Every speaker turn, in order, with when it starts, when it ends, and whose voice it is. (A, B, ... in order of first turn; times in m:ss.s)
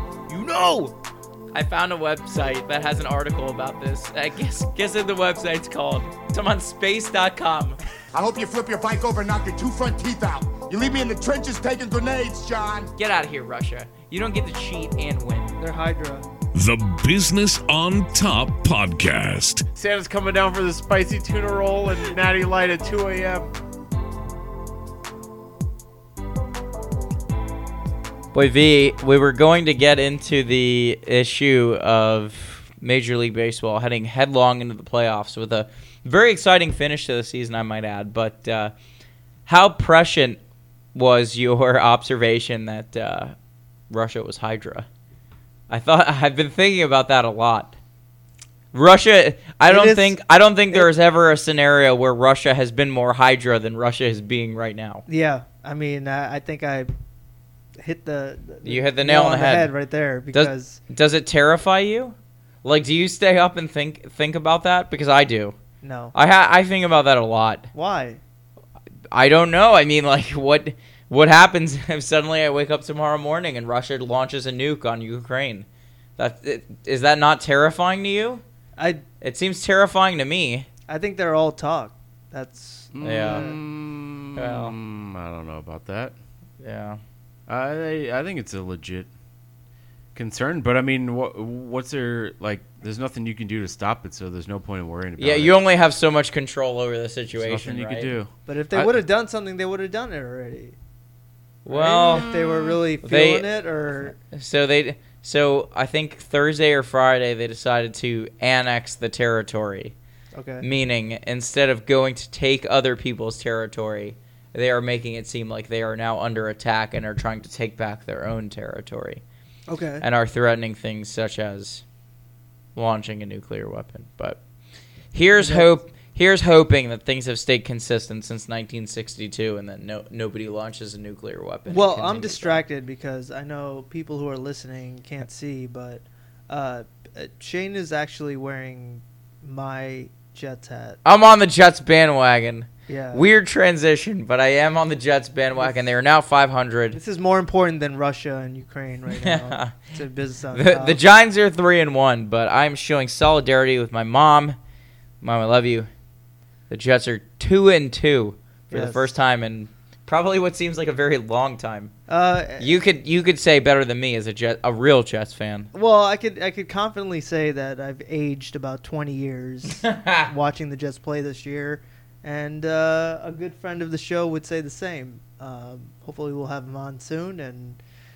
0:00.3-0:00.9 A
0:01.5-0:07.8 A
0:08.1-0:12.9 B
0:13.0-0:15.6 A
0:15.6-0:16.2 C
0:16.5-0:19.6 D
0:19.7-0:23.5 E
0:28.3-0:38.7 A
0:39.4-0:40.4 A
0:40.9-0:43.3 A
0:43.9-0:44.9 A
0:45.7-0:47.8 A
0:48.7-0:55.0 A
0:49.7-0:50.2 C
0:55.1-0:56.9 C
0:57.8-1:00.8 C
0:58.6-0:59.7 A
1:00.3-1:05.6 A
1:05.8-1:06.1 C
1:06.1-1:07.7 A
1:07.7-1:08.2 C
1:09.1-1:15.6 A
1:16.2-1:18.4 A
1:18.8-1:19.0 C
1:19.2-1:20.7 A
1:20.9-1:23.6 C
1:22.9-1:26.2 E
1:23.0-1:23.5 A
1:24.4-1:24.7 A
1:26.6-1:27.0 A
1:27.5-1:29.1 E
1:30.1-1:35.6 E
1:35.2-1:38.1 A
1:37.3-1:38.3 E
1:38.5-1:40.8 C
1:41.6-1:42.3 A
1:41.7-1:44.1 C
1:42.0-1:42.8 E
1:43.0-1:49.9 A
1:50.3-1:50.7 C
1:50.6-1:59.2 A
1:59.7-2:00.0 C
2:00.0-2:01.8 A
2:02.8-2:04.4 A
2:05.1-2:12.6 A
2:05.4-2:05.7 C
2:11.7-2:21.0 C
2:21.0-2:27.0 A
2:22.9-2:23.2 C
2:25.6-2:25.9 C
2:26.9-2:31.0 C
2:29.2-2:29.9 A
2:30.5-2:34.6 A
2:35.2-2:35.9 A
2:36.7-2:41.9 A
2:38.7-2:39.1 C
2:42.1-2:42.7 C
2:42.6-2:45.7 A
2:45.7-2:57.8 C
2:49.8-2:50.3 A